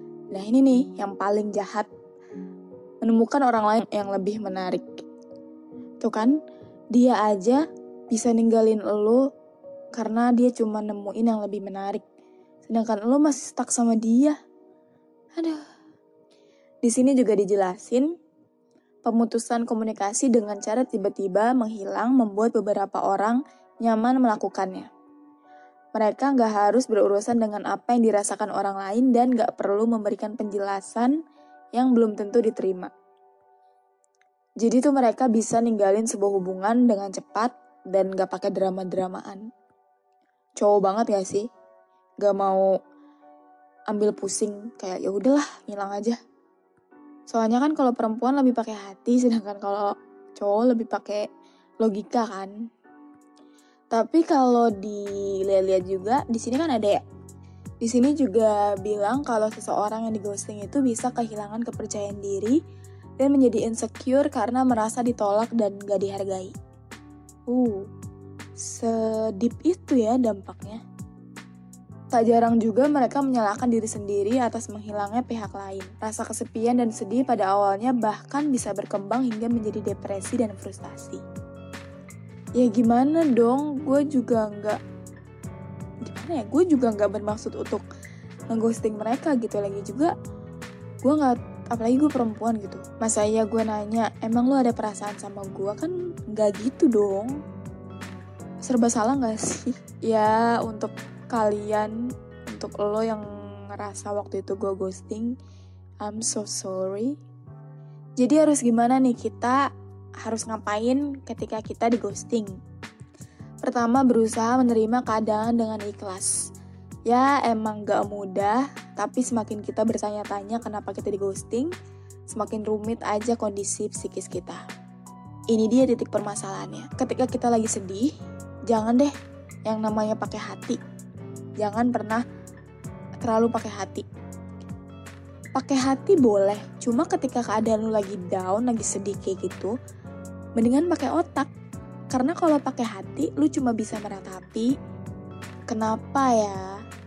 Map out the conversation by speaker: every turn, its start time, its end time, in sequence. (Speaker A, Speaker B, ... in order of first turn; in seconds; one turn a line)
Speaker A: 0.3-1.9
Speaker A: 3.0-4.8
Speaker A: 6.0-6.4
Speaker A: 6.9-9.2
Speaker A: 9.9-12.0
Speaker A: 12.7-14.3
Speaker A: 16.8-18.1
Speaker A: 19.0-24.9
Speaker A: 25.9-31.2
Speaker A: 31.7-32.9
Speaker A: 34.6-39.5
Speaker A: 40.6-41.4
Speaker A: 42.2-42.6
Speaker A: 43.9-46.2
Speaker A: 47.3-51.3
Speaker A: 51.8-52.5
Speaker A: 53.9-57.0
Speaker A: 57.8-62.6
Speaker A: 63.2-66.5
Speaker A: 67.5-67.8
Speaker A: 68.6-70.8
Speaker A: 72.1-81.2
Speaker A: 82.5-84.8
Speaker A: 86.0-87.8
Speaker A: 88.5-90.1
Speaker A: 91.0-97.3
Speaker A: 98.6-101.9
Speaker A: 102.5-105.3
Speaker A: 106.0-107.1
Speaker A: 108.2-109.6
Speaker A: 110.2-112.5
Speaker A: 113.6-116.3
Speaker A: 117.1-121.7
Speaker A: 122.3-124.6
Speaker A: 125.5-128.1
Speaker A: 128.7-129.1
Speaker A: 129.7-130.8
Speaker A: 131.6-132.2
Speaker A: 133.2-134.1
Speaker A: 135.5-139.7
Speaker A: 140.6-141.5
Speaker A: 142.1-144.7
Speaker A: 145.7-146.6